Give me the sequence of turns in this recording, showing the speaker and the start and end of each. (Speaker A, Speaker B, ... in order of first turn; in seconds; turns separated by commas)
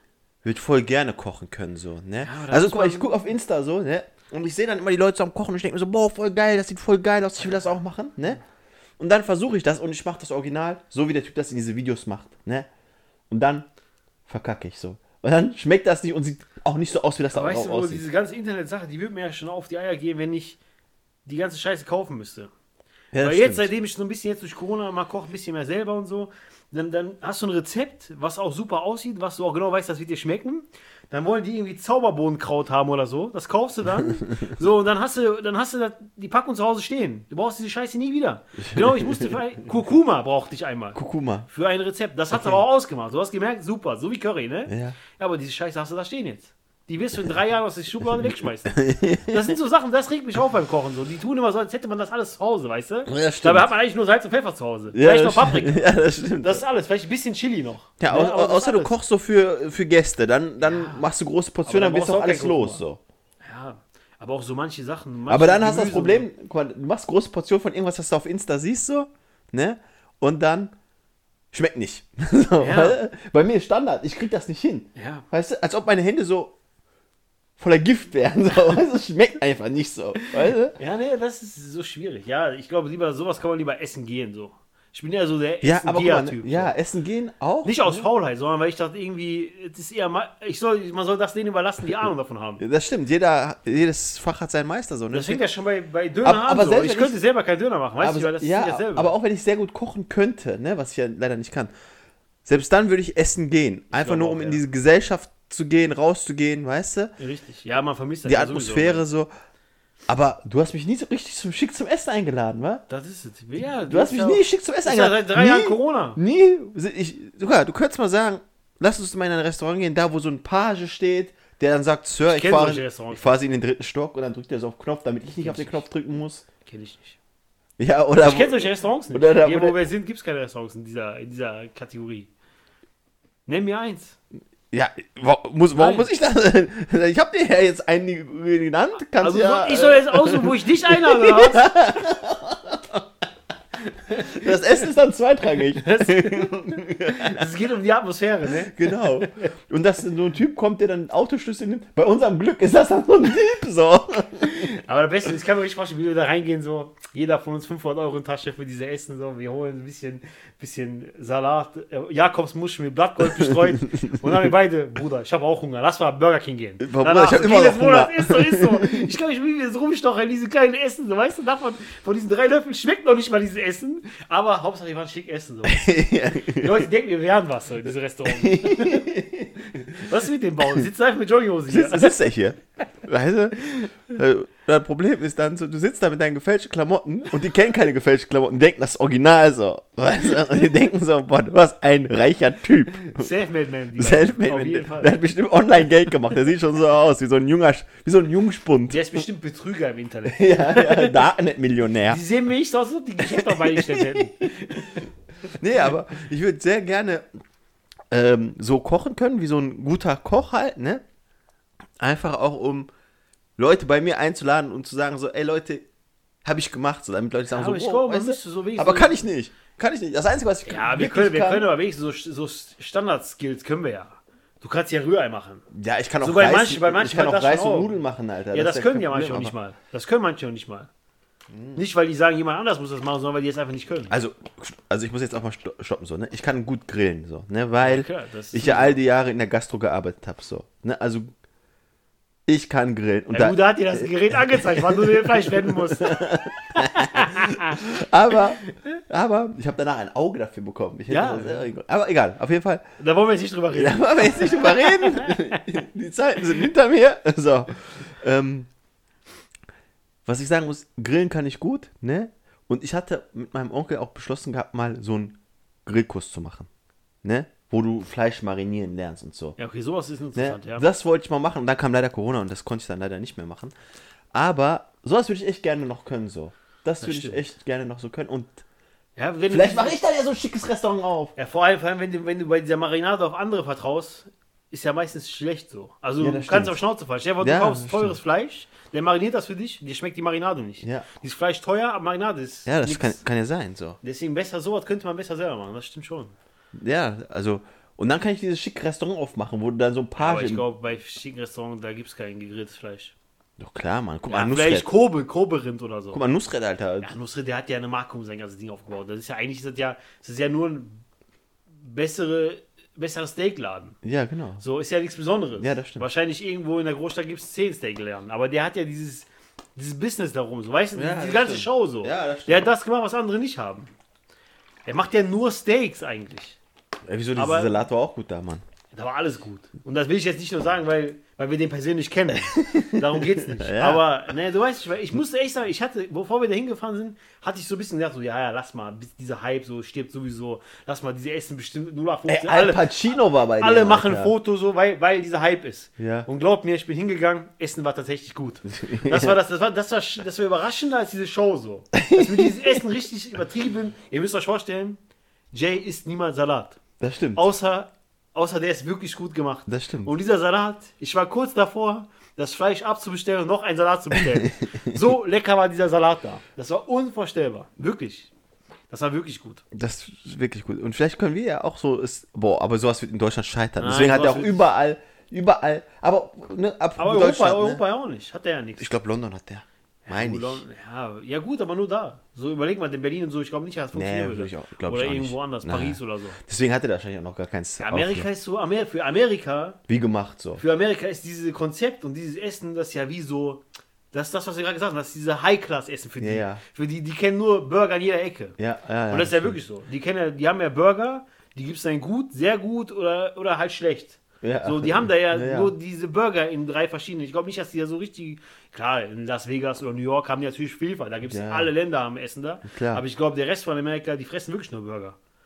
Speaker A: 0.4-8.4, Speaker B: 2.2-3.2, Speaker B: 7.4-7.7, Speaker A: 9.0-12.7, Speaker A: 13.3-13.7, Speaker A: 14.3-18.0, Speaker B: 17.3-20.6, Speaker B: 21.2-22.5, Speaker A: 23.1-23.7, Speaker B: 23.2-58.9, Speaker A: 38.6-39.4, Speaker A: 40.9-41.5, Speaker A: 42.3-42.6, Speaker A: 44.7-45.0, Speaker A: 48.7-49.5, Speaker A: 53.1-53.7, Speaker A: 54.9-56.6, Speaker A: 58.0-63.0, Speaker B: 60.6-61.0, Speaker B: 61.6-62.8, Speaker B: 63.4-66.3, Speaker A: 65.3-70.7, Speaker A: 71.5-76.5, Speaker B: 72.6-73.0, Speaker B: 74.9-75.2, Speaker A: 77.6-80.8, Speaker B: 80.2-86.7, Speaker A: 85.6-88.0, Speaker B: 87.6-92.6, Speaker A: 92.6-95.4, Speaker B: 95.1-99.1, Speaker A: 96.2-97.2, Speaker A: 98.0-101.7, Speaker A: 102.4-107.1, Speaker B: 103.9-104.6, Speaker B: 107.2-109.0, Speaker A: 108.2-109.3, Speaker A: 110.1-112.8, Speaker B: 112.9-116.2, Speaker A: 113.9-126.4, Speaker B: 122.2-123.3, Speaker B: 125.3-125.8, Speaker B: 126.7-127.2, Speaker A: 127.8-129.8, Speaker B: 128.2-132.3, Speaker B: 133.5-134.2, Speaker A: 134.7-143.0, Speaker B: 135.7-136.1, Speaker B: 139.2-141.7, Speaker B: 143.9-144.6, Speaker A: 144.2-147.5, Speaker B: 145.7-149.4, Speaker A: 148.5-154.7, Speaker B: 154.4-175.9, Speaker A: 163.3-164.5, Speaker A: 166.8-169.1, Speaker A: 175.7-176.9, Speaker B: 176.5-179.1, Speaker A: 178.3-180.1, Speaker B: 179.9-182.3, Speaker A: 181.7-193.3, Speaker B: 193.0-195.2, Speaker A: 194.0-199.2, Speaker B: 198.9-201.3, Speaker A: 200.3-202.2, Speaker B: 202.1-205.6, Speaker A: 203.2-204.5, Speaker A: 205.6-207.2, Speaker A: 208.1-211.0, Speaker A: 212.0-212.9, Speaker A: 213.6-215.8, Speaker A: 216.4-221.7, Speaker B: 217.5-219.2, Speaker B: 220.7-225.6, Speaker A: 225.7-229.5, Speaker B: 226.2-227.9, Speaker B: 228.5-230.9, Speaker A: 231.5-231.8, Speaker B: 231.7-234.1, Speaker A: 234.1-241.3, Speaker B: 237.8-239.0, Speaker A: 242.5-252.8, Speaker B: 243.3-248.8, Speaker B: 251.1-251.7, Speaker B: 253.0-255.6, Speaker A: 253.7-258.7, Speaker A: 260.2-266.7, Speaker A: 267.2-269.6, Speaker B: 269.6-270.9, Speaker A: 270.3-273.7, Speaker A: 274.3-278.6, Speaker B: 277.0-277.4, Speaker B: 279.1-280.0, Speaker A: 279.5-281.3, Speaker B: 281.4-293.2, Speaker A: 286.2-286.8, Speaker A: 287.4-288.1, Speaker A: 292.6-294.0, Speaker B: 294.0-296.3, Speaker A: 296.7-300.6, Speaker B: 300.1-303.1, Speaker A: 303.6-304.9, Speaker B: 304.3-306.2, Speaker A: 306.1-307.1, Speaker B: 307.0-311.0, Speaker B: 311.8-314.0, Speaker A: 314.0-314.6, Speaker B: 314.6-323.9, Speaker A: 315.6-316.1, Speaker A: 320.9-322.7, Speaker B: 324.9-326.6, Speaker A: 327.1-328.6, Speaker B: 327.4-327.8, Speaker B: 328.9-355.0, Speaker A: 332.3-334.1, Speaker A: 342.3-344.3, Speaker A: 346.0-346.3, Speaker A: 348.7-349.4, Speaker A: 351.9-352.8, Speaker B: 355.5-356.8, Speaker A: 357.0-357.4, Speaker B: 357.3-368.3, Speaker A: 359.7-360.1, Speaker A: 364.1-365.0, Speaker B: 368.9-369.6, Speaker A: 369.7-377.8, Speaker B: 373.8-374.6, Speaker B: 377.0-378.9, Speaker A: 378.8-380.6, Speaker B: 380.1-386.4, Speaker A: 383.9-388.3, Speaker B: 387.8-389.8, Speaker A: 389.9-390.6, Speaker B: 390.6-398.6, Speaker A: 396.2-396.6, Speaker A: 398.6-399.6, Speaker B: 399.1-415.1, Speaker A: 404.4-405.7, Speaker A: 411.3-411.7, Speaker A: 412.6-413.0